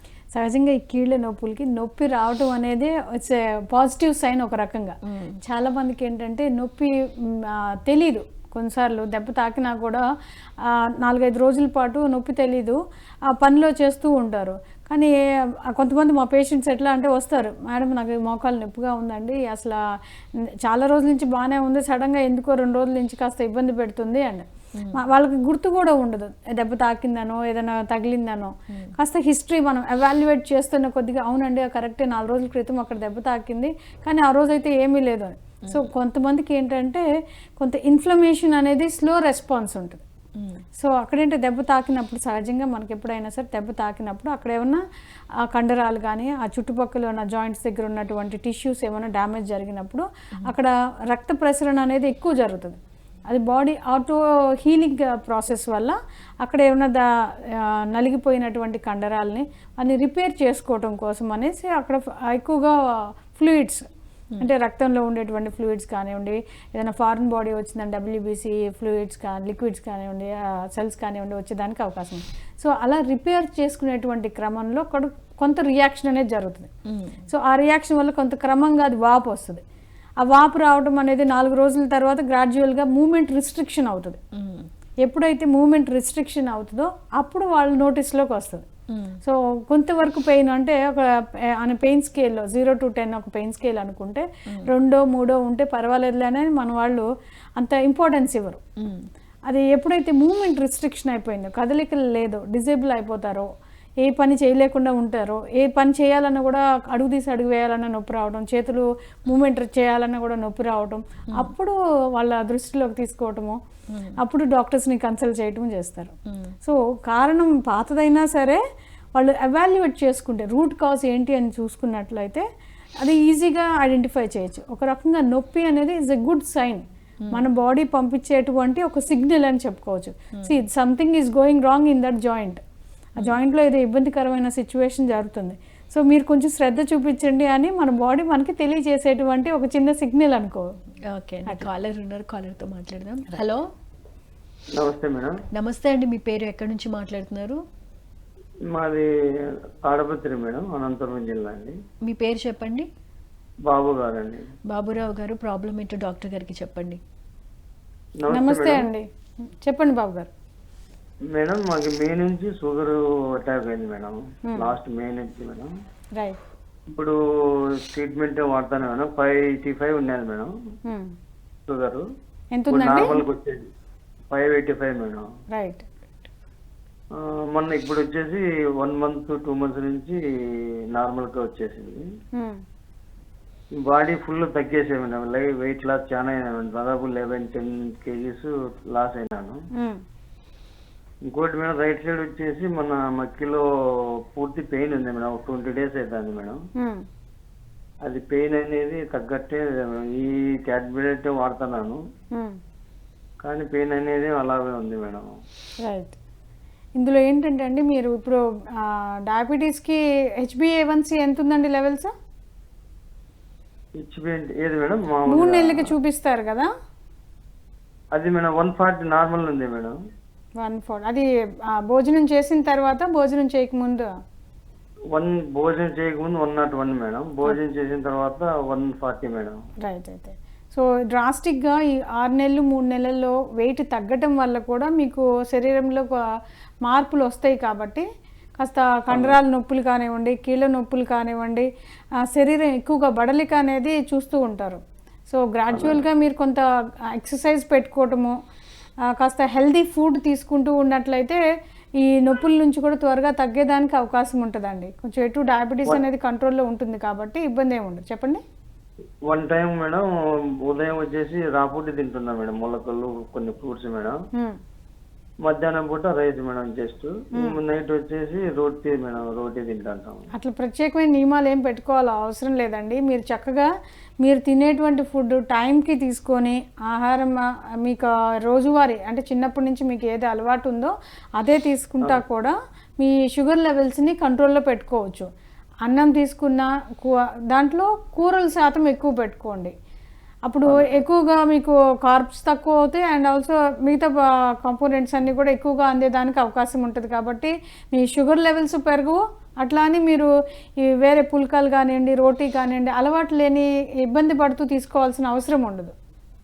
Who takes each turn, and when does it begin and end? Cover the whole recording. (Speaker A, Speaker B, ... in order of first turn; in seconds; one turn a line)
Speaker A: 0.3-10.0
Speaker B: 5.0-5.4
Speaker A: 10.6-12.8
Speaker A: 13.3-15.1
Speaker A: 15.7-19.8
Speaker A: 20.6-37.0
Speaker A: 37.6-40.0
Speaker A: 40.8-44.8
Speaker A: 45.5-63.8
Speaker A: 64.4-76.7
Speaker B: 76.9-77.2
Speaker A: 77.3-79.6
Speaker A: 80.2-84.2
Speaker B: 84.3-84.7
Speaker A: 85.0-88.7
Speaker B: 88.9-89.2
Speaker A: 89.2-91.1
Speaker A: 91.6-97.0
Speaker A: 97.6-98.6
Speaker B: 98.8-99.0
Speaker A: 99.5-103.5
Speaker A: 104.0-113.6
Speaker A: 114.2-116.1
Speaker B: 116.3-116.5
Speaker A: 116.6-118.6
Speaker A: 119.1-122.4
Speaker A: 123.0-132.6
Speaker A: 133.2-140.7
Speaker B: 141.1-143.6
Speaker C: 144.7-145.3
Speaker B: 145.5-147.6
Speaker C: 148.7-151.7
Speaker B: 152.1-152.9
Speaker C: 153.7-154.5
Speaker B: 154.7-157.0
Speaker C: 158.2-158.9
Speaker A: 158.3-160.3
Speaker C: 161.3-165.7
Speaker A: 164.5-164.7
Speaker C: 167.8-170.5
Speaker A: 170.9-171.1
Speaker C: 171.7-172.0
Speaker A: 172.5-173.2
Speaker C: 172.7-173.7
Speaker C: 174.3-175.3
Speaker A: 175.5-175.9
Speaker C: 177.1-180.2
Speaker C: 180.9-182.0
Speaker C: 183.8-189.6
Speaker C: 191.3-193.6
Speaker C: 194.3-196.6
Speaker A: 196.8-197.0
Speaker C: 198.0-202.0
Speaker C: 203.4-205.3
Speaker A: 205.8-206.2
Speaker A: 207.0-212.1
Speaker C: 214.0-215.8
Speaker A: 215.3-216.7
Speaker C: 218.1-219.9
Speaker A: 220.6-221.2
Speaker A: 221.8-224.1
Speaker C: 225.1-229.6
Speaker A: 229.8-236.1
Speaker A: 236.8-238.0
Speaker A: 238.6-241.7
Speaker C: 239.1-239.3
Speaker A: 242.3-246.6
Speaker C: 245.7-246.0
Speaker A: 247.2-248.3
Speaker A: 249.2-251.4
Speaker A: 252.0-258.4
Speaker C: 259.3-260.0
Speaker C: 260.6-264.2
Speaker C: 265.4-270.3
Speaker A: 270.3-273.7
Speaker A: 274.2-285.3
Speaker A: 285.9-289.7
Speaker A: 290.5-300.3
Speaker C: 290.7-291.0
Speaker A: 300.8-305.9